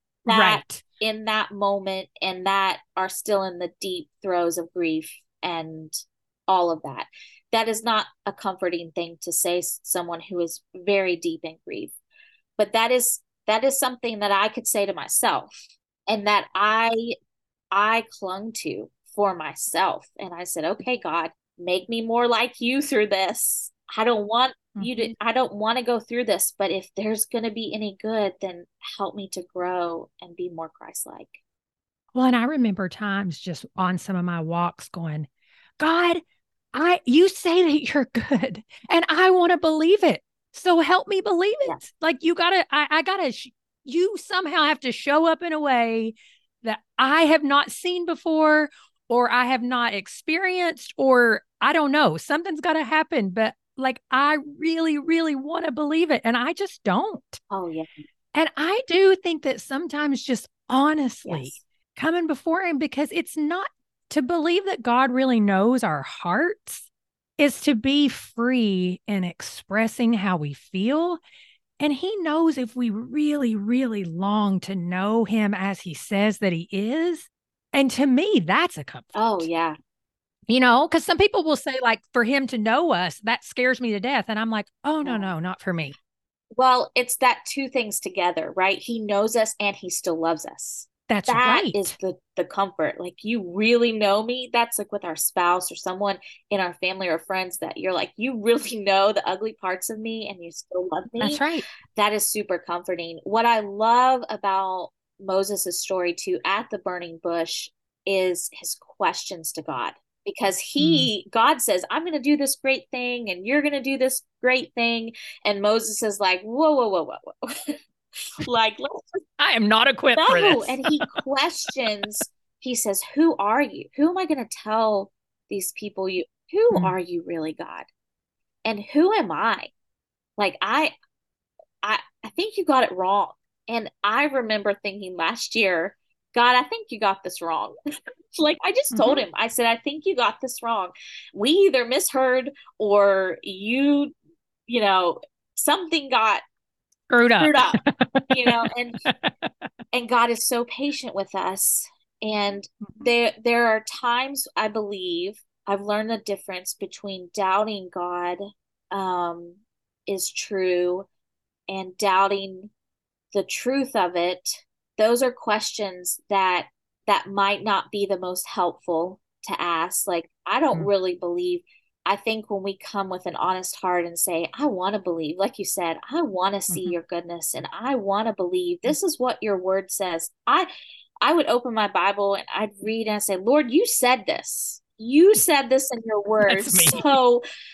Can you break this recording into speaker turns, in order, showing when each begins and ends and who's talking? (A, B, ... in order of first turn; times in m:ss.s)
0:00.3-0:00.8 A
0:00.3-0:12.0 B
0:12.6-0:17.1 B
0:17.7-0:31.4 B
0:24.8-0:25.1 A
0:32.1-0:35.3 A
0:35.8-0:36.2 A
0:36.7-0:57.4 A
0:57.5-0:57.9 B
0:58.3-1:06.9 A
1:01.3-1:01.6 B
1:07.4-1:11.2 A
1:11.8-1:19.5 A
1:19.2-1:19.8 B
1:20.5-1:26.0 A
1:25.0-1:25.3 B
1:26.6-1:41.4 B
1:31.1-1:32.0 A
1:41.2-1:41.7 A
1:42.0-1:57.7 B
1:50.8-1:51.1 A
1:58.4-1:59.0 B
1:59.4-2:01.1 A
2:00.2-2:07.9 B
2:08.6-2:09.7 B
2:10.4-2:10.9 B
2:11.8-2:17.7 B
2:18.4-2:24.1 B
2:18.9-2:19.2 A
2:24.7-2:26.4 B
2:27.1-2:29.4 A
2:27.4-2:29.0 B
2:29.9-2:41.1 B
2:41.7-2:42.7 B
2:43.3-3:00.7 B
2:56.7-2:57.0 A
3:01.2-3:07.4 B
3:06.4-3:07.1 A